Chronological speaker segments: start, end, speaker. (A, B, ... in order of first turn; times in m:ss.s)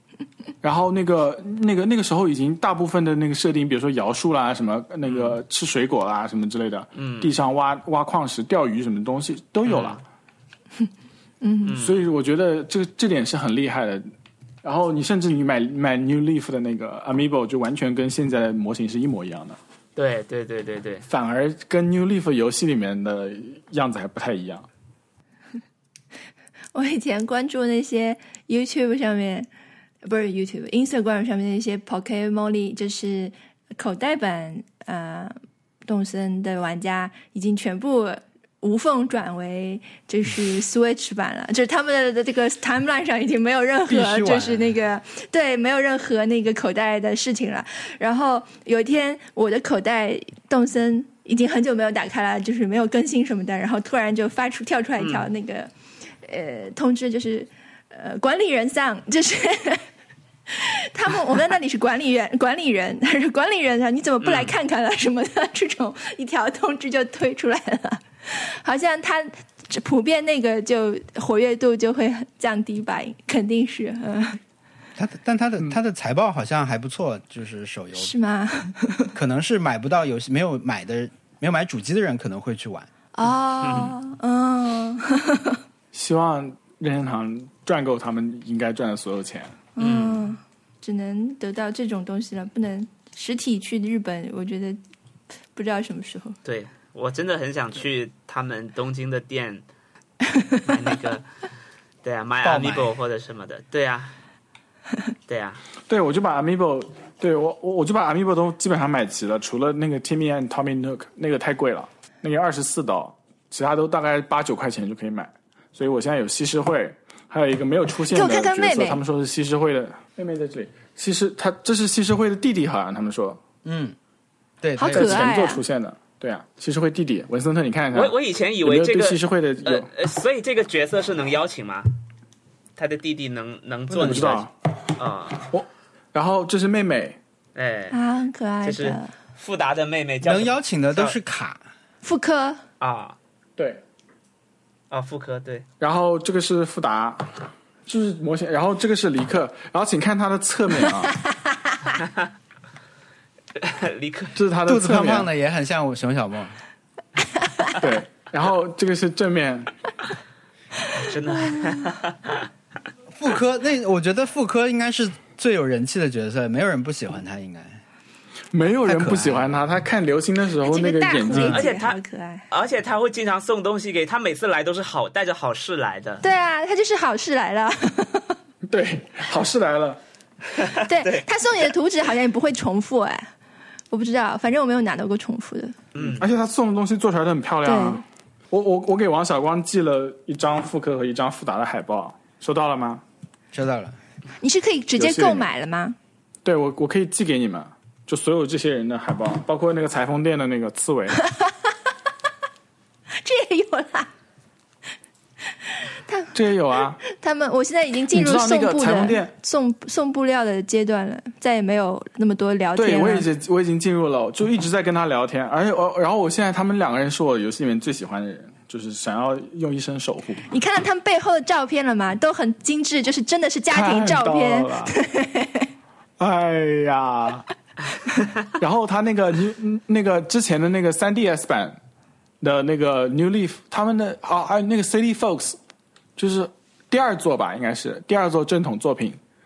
0:00.6-0:10.0 A
0:05.0-0:05.4 B
0:07.0-0:07.3 B
0:09.6-0:10.0 B
0:11.4-0:11.8 C
0:11.6-0:12.0 B
0:11.8-0:14.1 A
0:14.6-0:19.6 A
0:20.0-0:21.0 B
0:21.1-0:24.6 A
0:26.7-0:29.5 C
0:30.0-0:35.3 C
0:35.8-0:55.7 C
0:43.9-0:44.8 D
0:55.0-0:55.3 B
0:56.2-0:59.8 C
1:00.5-1:14.4 C
1:04.2-1:04.5 B
1:15.0-1:18.1 D
1:18.0-1:19.1 C
1:19.1-1:22.9 D
1:23.1-1:25.6 C
1:23.6-1:23.9 B
1:25.9-1:29.6 A
1:29.8-1:34.8 C
1:29.8-1:30.4 B
1:35.5-1:36.4 C
1:36.4-1:39.6 B
1:40.3-1:40.6 C
1:40.7-1:41.2 B
1:42.0-1:44.1 B
1:42.4-1:42.9 D
1:45.3-1:45.6 B
1:45.9-2:03.4 A
1:58.1-1:59.0 C
2:03.6-2:04.0 D
2:04.6-2:05.4 D
2:04.8-2:05.6 C
2:04.9-2:09.9 A
2:07.9-2:11.9 B
2:12.8-2:14.4 B
2:14.0-2:14.5 A
2:14.0-2:14.3 D
2:15.0-2:15.5 B
2:15.5-2:17.2 A
2:17.5-2:18.0 B
2:17.9-2:19.1 C
2:18.6-2:21.2 B
2:20.2-2:21.6 D
2:22.0-2:22.6 C
2:22.8-2:23.2 B
2:23.6-2:23.8 A
2:24.9-2:25.6 B
2:25.8-2:31.2 A
2:31.9-2:32.3 B
2:33.6-2:34.3 B
2:34.3-2:35.3 A
2:34.7-2:36.6 D
2:37.8-2:39.7 A
2:41.0-2:42.5 B
2:41.5-2:41.8 C
2:43.1-2:47.8 D
2:48.5-2:51.6 A
2:48.8-2:49.6 D
2:50.6-2:52.5 C
2:51.3-2:51.6 D
2:51.4-2:56.2 B
2:56.2-2:58.4 C
2:58.7-3:00.0 A
3:00.5-3:01.3 B
3:00.8-3:03.3 C
3:03.9-3:05.7 C
3:05.9-3:06.3 B
3:06.0-3:13.0 A
3:07.6-3:08.0 C
3:13.5-3:14.0 D
3:14.4-3:16.0 C
3:15.0-3:15.5 A
3:16.4-3:21.2 A
3:23.2-3:24.1 C
3:25.7-3:26.3 C
3:26.3-3:27.0 A
3:27.0-3:33.3 C
3:28.1-3:29.3 A
3:32.8-3:40.4 A
3:40.5-3:45.7 C
3:43.7-3:44.9 A
3:46.2-3:47.4 A
3:48.5-3:51.8 A
3:52.4-3:55.6 A
3:56.2-3:59.2 A